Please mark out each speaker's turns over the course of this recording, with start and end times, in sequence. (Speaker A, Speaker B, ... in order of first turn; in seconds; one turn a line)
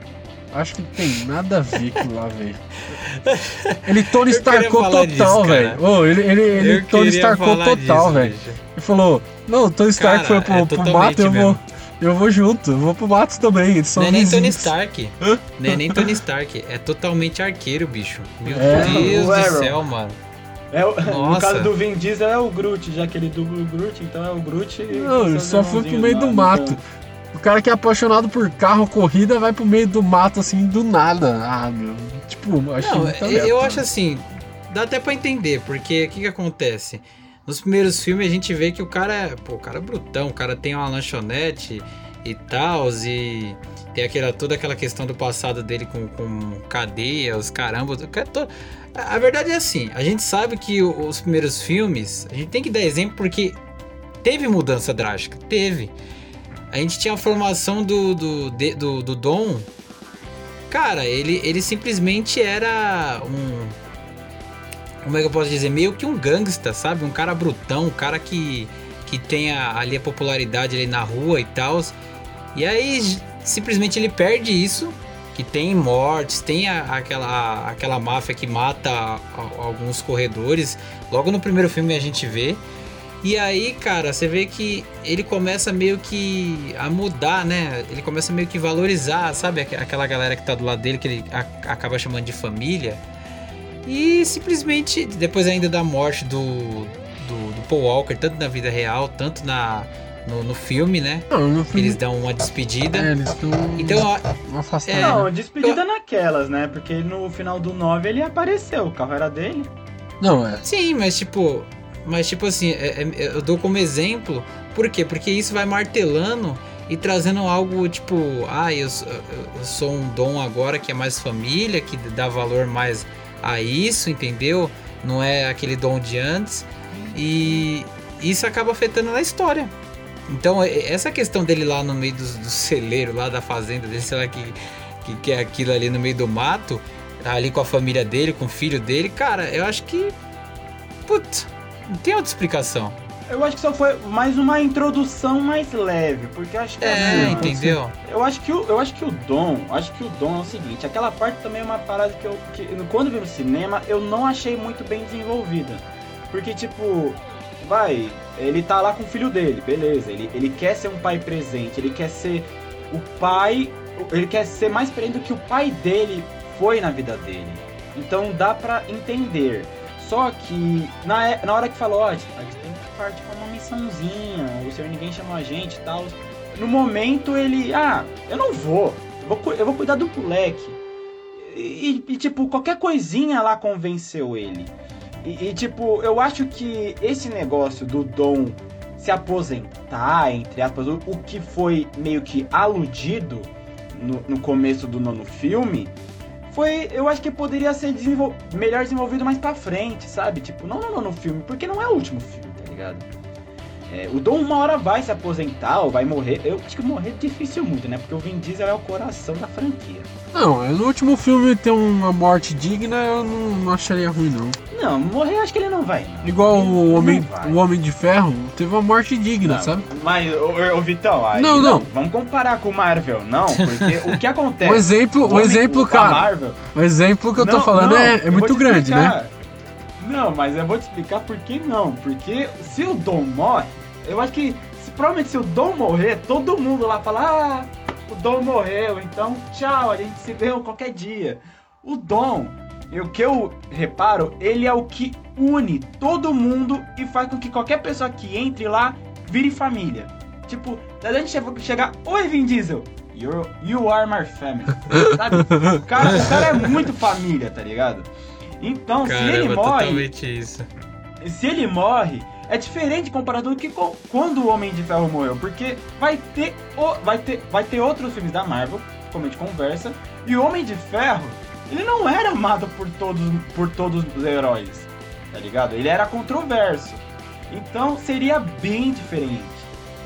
Speaker A: 0.5-2.6
Speaker B: 2.9-5.8
Speaker A: 3.9-14.7
Speaker B: 6.5-8.6
Speaker B: 10.0-11.6
Speaker B: 14.0-20.2
Speaker A: 15.2-16.1
Speaker A: 18.5-19.2
Speaker C: 18.6-19.8
Speaker C: 20.7-26.8
Speaker B: 21.1-21.7
Speaker A: 24.9-26.8
Speaker A: 27.3-33.9
Speaker B: 32.8-53.6
Speaker B: 54.2-55.9
Speaker B: 56.7-59.7
Speaker B: 60.7-63.8
Speaker B: 65.0-72.0
Speaker B: 72.5-82.6
Speaker B: 83.2-93.0
Speaker B: 93.8-103.1
Speaker A: 101.3-102.0
Speaker A: 102.9-105.3
Speaker B: 103.8-104.3
Speaker B: 104.8-105.8
Speaker C: 105.0-109.7
Speaker A: 110.2-110.6
Speaker B: 110.6-129.7
Speaker B: 130.3-140.1
Speaker B: 141.1-143.0
Speaker C: 143.3-180.8
Speaker B: 146.8-147.9
Speaker A: 146.9-147.8
Speaker C: 181.3-195.9
Speaker C: 196.5-203.1
Speaker C: 203.9-210.1
Speaker A: 210.3-214.6
Speaker C: 214.7-217.6
Speaker A: 216.2-219.8
Speaker C: 219.4-226.6
Speaker A: 221.3-221.9
Speaker A: 224.6-229.2
Speaker C: 227.3-229.3
Speaker C: 230.0-258.1
Speaker C: 258.6-260.1
Speaker B: 259.0-260.7
Speaker C: 261.2-279.7